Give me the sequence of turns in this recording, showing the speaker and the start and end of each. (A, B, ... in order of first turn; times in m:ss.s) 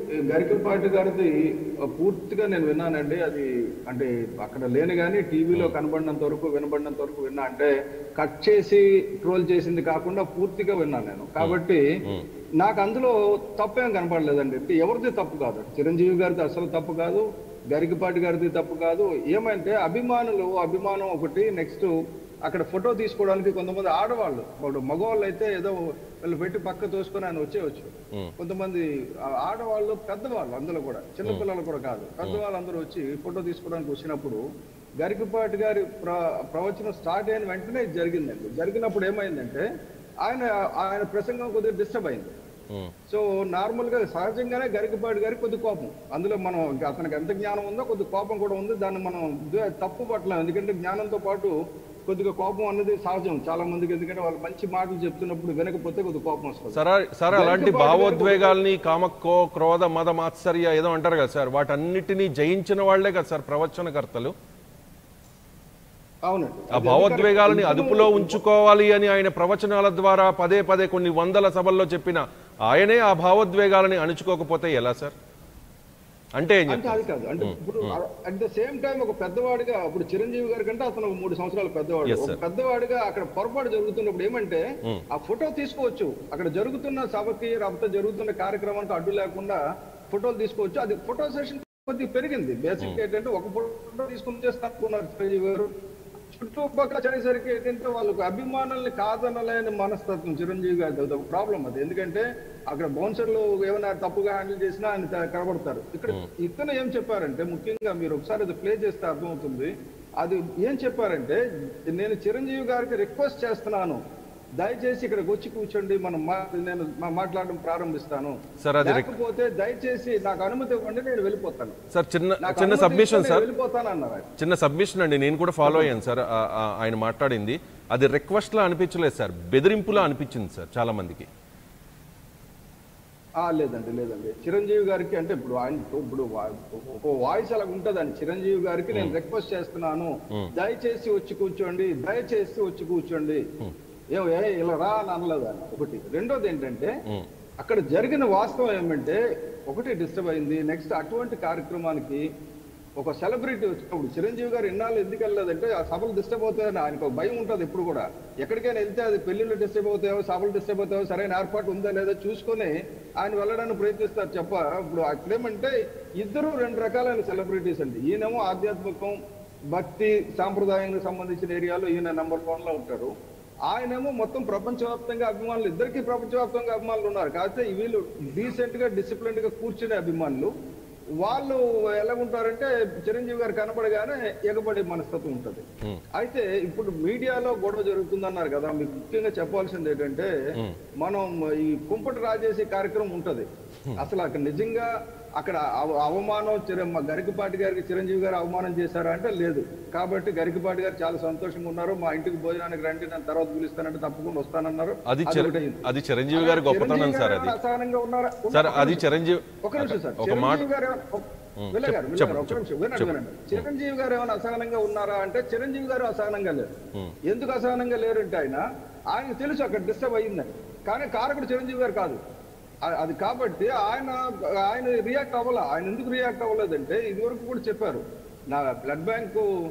0:00.3-0:01.3 A
0:02.0-0:11.8 A
0:11.4-0:12.3 B
0:12.6-0:21.9 A
0:22.5-0:28.8 A
0:29.4-0:34.4 A
0:35.0-0:39.6 A
0:40.2-0:42.3 A
0:43.1-0:51.5 A
0:52.1-0:56.8 A
0:56.7-1:04.3 B
0:57.3-0:58.6 A
1:06.3-1:08.4 A
1:06.7-1:15.1 B
1:16.4-1:18.0 B
1:16.7-1:24.6 A
1:22.0-1:22.4 B
1:25.2-1:29.6 A
1:30.1-1:35.7 A
1:36.3-1:51.4 A
1:51.9-1:54.0 A
1:54.6-2:01.8 A
1:58.6-1:59.2 B
2:01.9-2:03.5 B
2:02.4-2:04.2 A
2:04.4-2:11.3 B
2:05.6-2:05.9 A
2:13.4-2:23.4 A
2:24.1-2:26.9 A
2:27.6-2:32.2 A
2:33.0-2:49.2 A
2:49.7-2:53.1 A
2:53.7-3:00.5 A
3:01.2-3:05.6 A
3:06.2-3:10.3 A
3:11.0-3:13.5 A
3:14.0-3:29.1 A
3:25.1-3:27.6 B
3:28.5-3:30.7 B
3:29.6-3:36.7 A
3:31.6-3:33.7 B
3:37.3-3:38.6 A
3:39.1-3:42.2 A
3:42.9-3:49.5 A